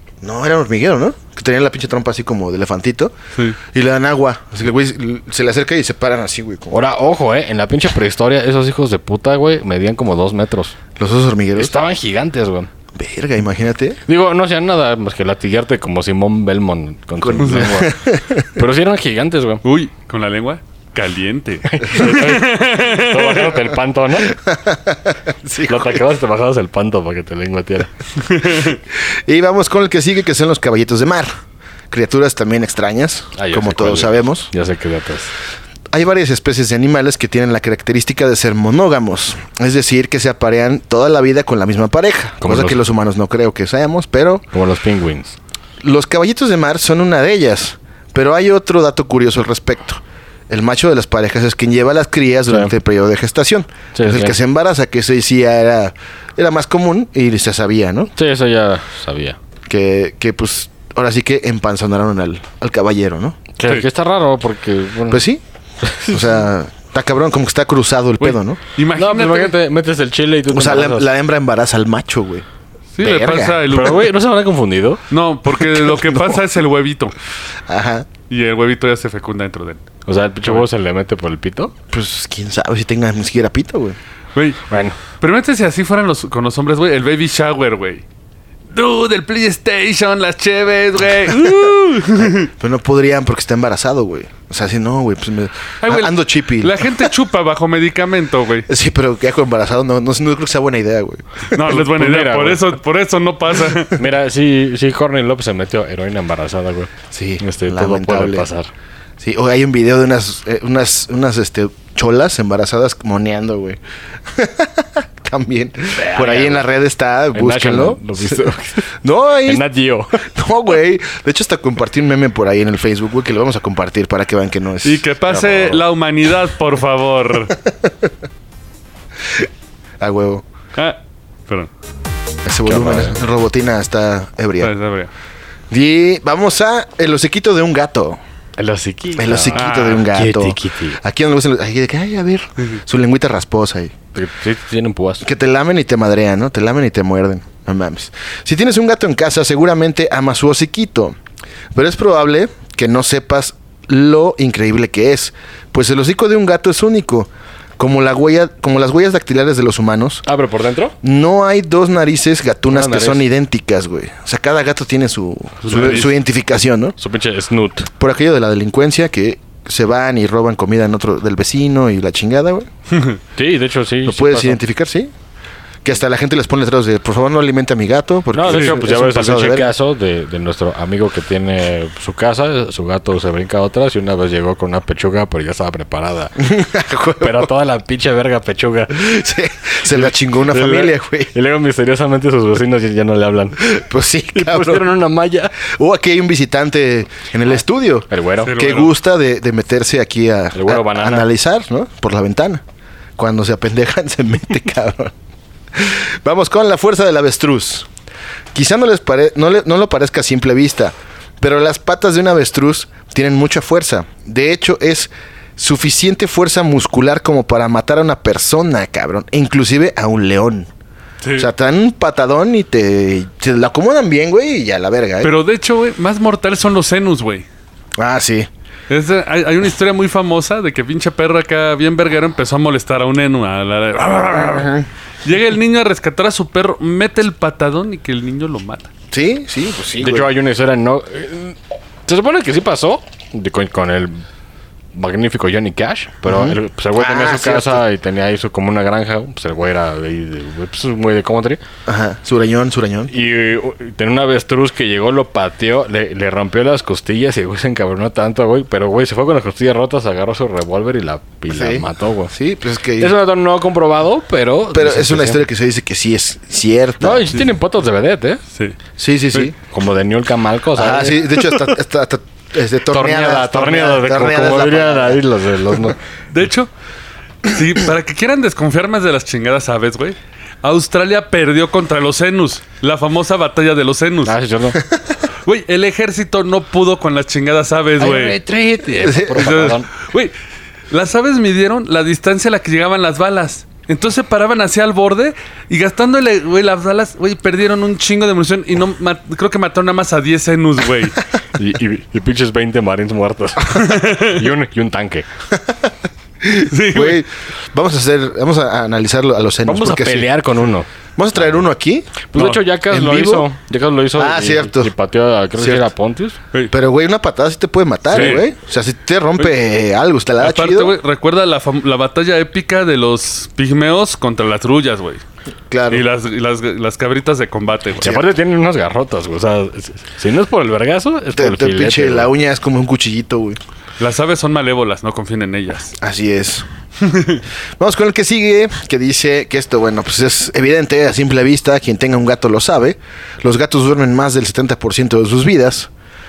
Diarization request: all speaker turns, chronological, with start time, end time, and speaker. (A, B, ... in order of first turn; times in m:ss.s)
0:00.2-0:03.1 A
0:03.7-0:06.8 A
0:06.7-0:10.8 B
0:11.0-0:11.8 A
0:11.6-0:12.7 B
0:12.9-0:14.0 A
0:14.1-0:18.0 B
0:17.2-0:18.5 A
0:17.4-0:17.7 C
0:18.5-0:19.6 B
0:19.6-0:23.6 C
0:21.7-0:24.3 B
0:24.2-0:26.0 A
0:25.6-0:27.9 B
0:28.4-0:28.8 C
0:29.2-0:31.3 A
0:31.9-0:34.5 A
0:33.3-0:35.3 B
0:35.9-0:44.4 A
0:42.4-0:42.8 B
0:44.5-0:45.4 B
0:45.8-0:58.1 A
0:52.5-0:52.7 B
0:53.9-0:54.4 B
0:58.1-0:59.4 B
0:59.7-1:03.4 A
1:03.6-1:05.2 B
1:05.1-1:05.4 A
1:05.8-1:06.4 B
1:06.1-1:08.6 A
1:08.2-1:09.5 C
1:08.9-1:11.1 B
1:10.5-1:12.4 A
1:13.0-1:14.1 C
1:13.0-1:13.7 A
1:13.7-1:15.0 B
1:15.1-1:17.1 C
1:15.5-1:16.4 A
1:17.7-1:18.1 A
1:18.3-1:19.8 C
1:20.0-1:21.7 B
1:21.9-1:24.0 A
1:24.3-1:24.6 C
1:24.7-1:25.0 B
1:25.1-1:28.0 C
1:28.7-1:32.5 C
1:31.3-1:37.1 A
1:35.8-1:38.7 C
1:38.7-1:41.5 A
1:41.5-1:44.0 C
1:41.6-1:42.6 B
1:43.9-1:48.7 B
1:47.1-1:48.5 A
1:49.2-1:53.8 A
1:54.3-1:59.6 A
1:55.9-1:56.7 B
1:57.3-1:58.9 B
1:59.4-2:00.2 B
2:00.2-2:05.0 A
2:04.8-2:07.6 C
2:05.3-2:05.8 B
2:07.6-2:08.1 A
2:10.0-2:10.4 A
2:10.8-2:11.7 C
2:12.4-2:14.7 A
2:12.6-2:13.2 B
2:14.6-2:15.1 C
2:15.7-2:18.2 A
2:18.6-2:21.0 B
2:19.2-2:23.9 A
2:19.5-2:20.1 C
2:24.1-2:25.2 B
2:25.2-2:31.2 A
2:31.7-2:40.2 A
2:40.2-2:41.0 B
2:41.0-2:47.0 A
2:42.7-2:43.2 B
2:45.6-2:46.1 C
2:47.0-2:47.9 B
2:48.0-2:52.7 A
2:53.4-2:54.6 B
2:54.0-2:55.1 A
2:55.8-2:59.7 A
2:58.3-3:06.4 B
2:58.5-2:58.7 C
3:06.4-3:07.5 A
3:07.2-3:09.2 B
3:09.0-3:11.3 A
3:09.8-3:13.7 B
3:13.6-3:14.9 A
3:14.3-3:15.6 B
3:15.6-3:22.6 A
3:18.1-3:18.5 B
3:18.4-3:18.9 C
3:20.5-3:21.3 B
3:23.2-3:25.1 A
3:25.7-3:27.9 A
3:28.5-3:40.7 A
3:41.2-3:41.5 C
3:41.4-3:45.3 A
3:45.2-3:47.4 C
3:48.0-3:48.5 A
3:48.9-3:58.9 C
3:59.1-4:00.3 A
4:00.0-4:04.2 B
4:04.9-4:11.6 B
4:06.2-4:07.8 A
4:11.8-4:13.1 A
4:13.1-4:22.3 B
4:21.5-4:23.1 A
4:23.0-4:25.4 B
4:24.7-4:27.3 A
4:27.0-4:28.4 B
4:29.0-4:29.5 A
4:29.7-4:31.5 B
4:30.7-4:35.2 A
4:32.9-4:36.0 B
4:36.3-4:36.7 C
4:37.4-4:44.3 C
4:44.2-4:44.8 B
4:45.4-4:48.4 C
4:48.0-4:49.9 B
4:49.0-4:49.7 A
4:49.3-4:50.3 C
4:50.9-5:01.2 C
5:01.6-5:05.3 B
5:03.7-5:04.4 C
5:05.6-5:05.9 A
5:06.4-5:10.3 A
5:06.6-5:07.2 C
5:09.6-5:11.6 B
5:11.2-5:12.3 A
5:12.3-5:16.4 B
5:12.3-5:12.6 C
5:12.9-5:13.5 A
5:14.2-5:14.9 A
5:15.6-5:15.9 A
5:16.7-5:20.9 A
5:18.1-5:18.5 C
5:20.4-5:25.2 C
5:25.7-5:26.0 A
5:25.9-5:28.1 C
5:28.0-5:32.3 B
5:28.0-5:28.3 A
5:31.3-5:33.6 A
5:34.0-5:35.9 C
5:36.0-5:36.6 A
5:37.0-5:37.4 C
5:37.8-5:45.9 A